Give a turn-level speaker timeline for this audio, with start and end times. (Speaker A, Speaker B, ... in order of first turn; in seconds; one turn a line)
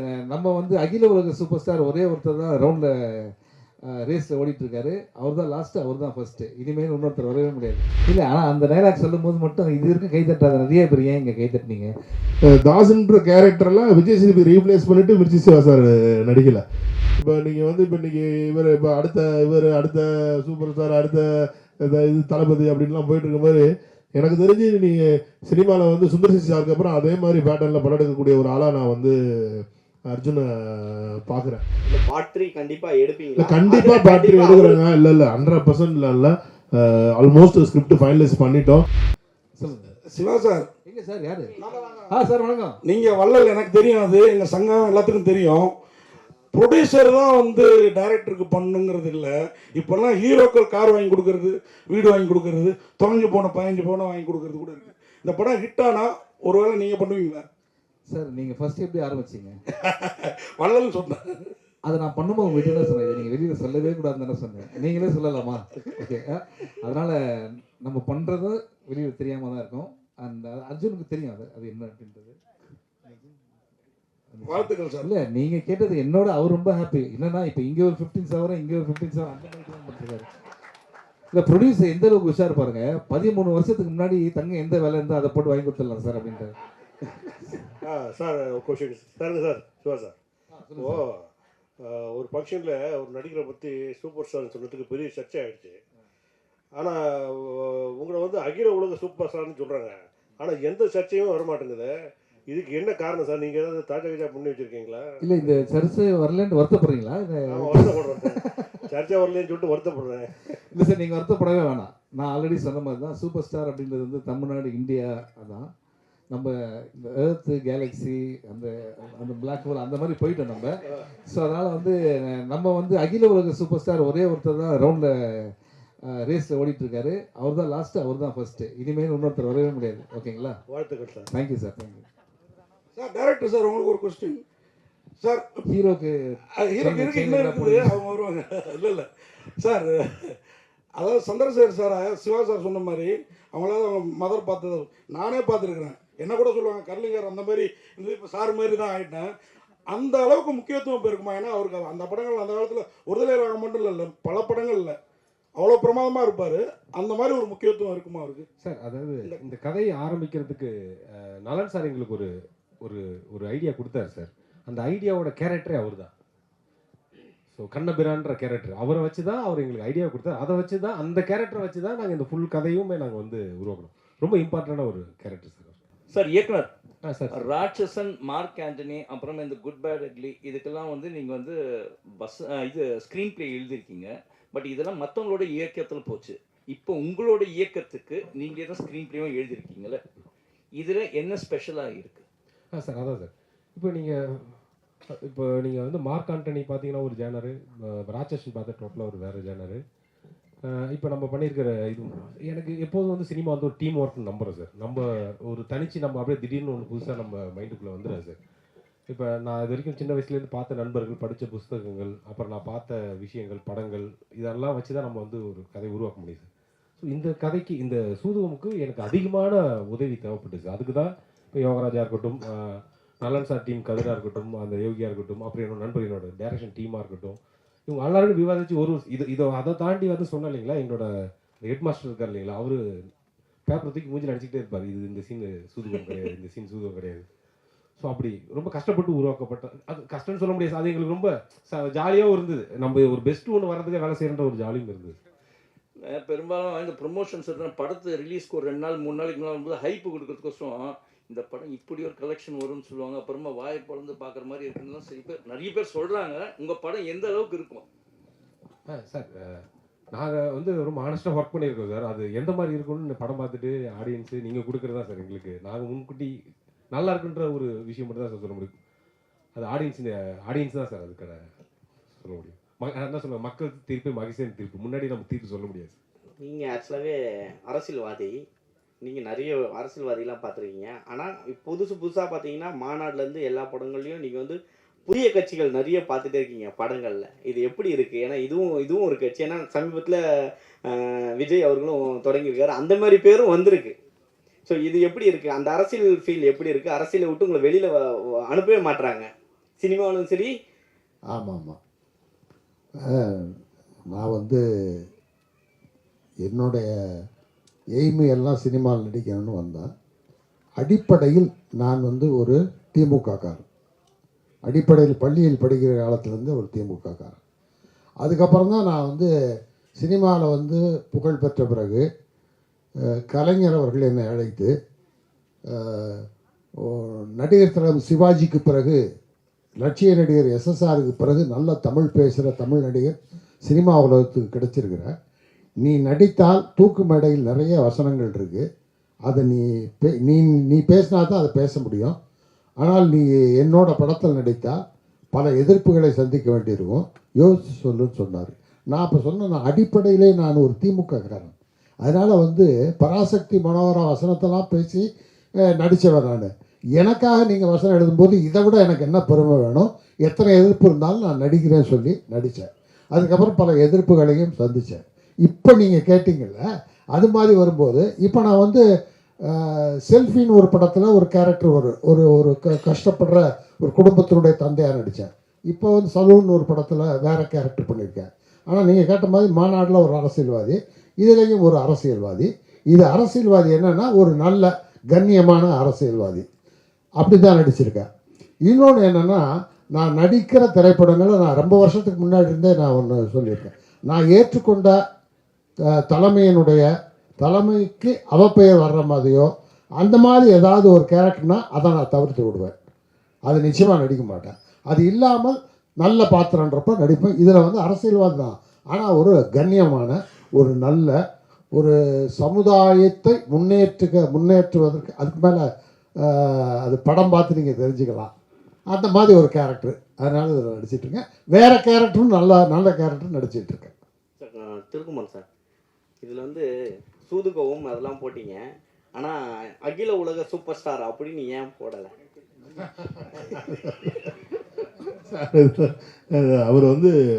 Speaker A: 0.3-2.9
Speaker A: 4.1-11.9
Speaker B: 12.5-16.6
Speaker B: 17.2-21.2
Speaker B: 21.8-23.6
Speaker B: 24.2-24.9
Speaker B: 25.5-31.6
Speaker C: 31.9-34.8
Speaker B: 33.4-38.8
Speaker A: 39.6-39.9
Speaker D: 40.1-40.7
Speaker A: 40.9-41.5
Speaker D: 41.6-42.0
Speaker A: 42.1-42.8
Speaker D: 42.8-45.7
Speaker D: 46.5-57.4
Speaker A: 58.1-59.6
Speaker D: 59.7-61.5
Speaker A: 61.9-67.2
Speaker A: 67.8-72.4
Speaker A: 74.3-80.3
Speaker D: 74.4-75.1
Speaker A: 81.3-86.5
Speaker E: 87.8-90.1
Speaker A: 90.5-91.0
Speaker E: 90.8-91.2
Speaker E: 91.8-95.8
Speaker E: 96.8-102.0
Speaker E: 102.5-105.6
Speaker A: 105.2-108.8
Speaker E: 107.5-110.3
Speaker A: 110.7-115.7
Speaker A: 116.3-125.5
Speaker A: 126.2-130.6
Speaker E: 130.7-131.2
Speaker A: 131.3-132.0
Speaker D: 132.9-134.4
Speaker D: 135.2-135.4
Speaker A: 135.7-138.0
Speaker D: 136.6-140.4
Speaker D: 141.0-149.3
Speaker D: 149.9-155.0
Speaker D: 155.6-158.4
Speaker F: 158.6-160.7
Speaker F: 161.4-162.3
Speaker F: 162.8-166.1
Speaker F: 167.5-175.8
Speaker G: 176.1-176.7
Speaker F: 177.0-177.4
Speaker G: 177.3-181.6
Speaker G: 182.2-190.0
Speaker G: 190.8-192.2
Speaker F: 192.7-194.6
Speaker F: 195.3-199.8
Speaker F: 200.7-208.4
Speaker F: 209.1-216.5
Speaker F: 217.0-231.1
Speaker F: 231.6-232.8
Speaker F: 233.7-237.2
Speaker F: 238.0-245.2
Speaker G: 246.1-257.8
Speaker F: 258.9-266.3
Speaker F: 266.9-268.7
Speaker F: 269.5-271.4
Speaker F: 272.2-275.9
Speaker C: 276.4-278.4
Speaker C: 279.0-290.2
Speaker C: 290.9-293.9
Speaker C: 294.6-299.3
Speaker C: 299.8-300.5
Speaker H: 301.3-301.8
Speaker H: 303.2-303.5
Speaker H: 304.1-304.6
Speaker H: 306.4-306.9
Speaker H: 308.0-309.9
Speaker H: 310.8-313.6
Speaker H: 314.7-317.4
Speaker H: 318.2-319.3
Speaker H: 320.0-322.0
Speaker H: 323.3-324.7
Speaker H: 325.7-326.2
Speaker H: 326.9-329.0
Speaker H: 329.8-333.1
Speaker H: 333.6-335.1
Speaker H: 335.8-338.6
Speaker H: 339.3-342.1
Speaker H: 342.8-344.8
Speaker H: 345.3-355.0
Speaker H: 355.7-366.6
Speaker H: 367.1-368.8
Speaker H: 369.5-386.4
Speaker H: 387.2-388.1
Speaker H: 388.7-389.4
Speaker H: 389.9-394.9
Speaker H: 396.1-396.8
Speaker H: 397.4-399.5
Speaker H: 400.0-402.7
Speaker H: 403.5-411.1
Speaker H: 411.7-415.6
Speaker H: 416.2-418.3
Speaker H: 418.9-423.9
Speaker C: 424.4-425.4
Speaker C: 426.2-426.6
Speaker C: 427.2-428.6
Speaker C: 429.1-432.1
Speaker B: 432.8-434.3
Speaker B: 435.0-437.1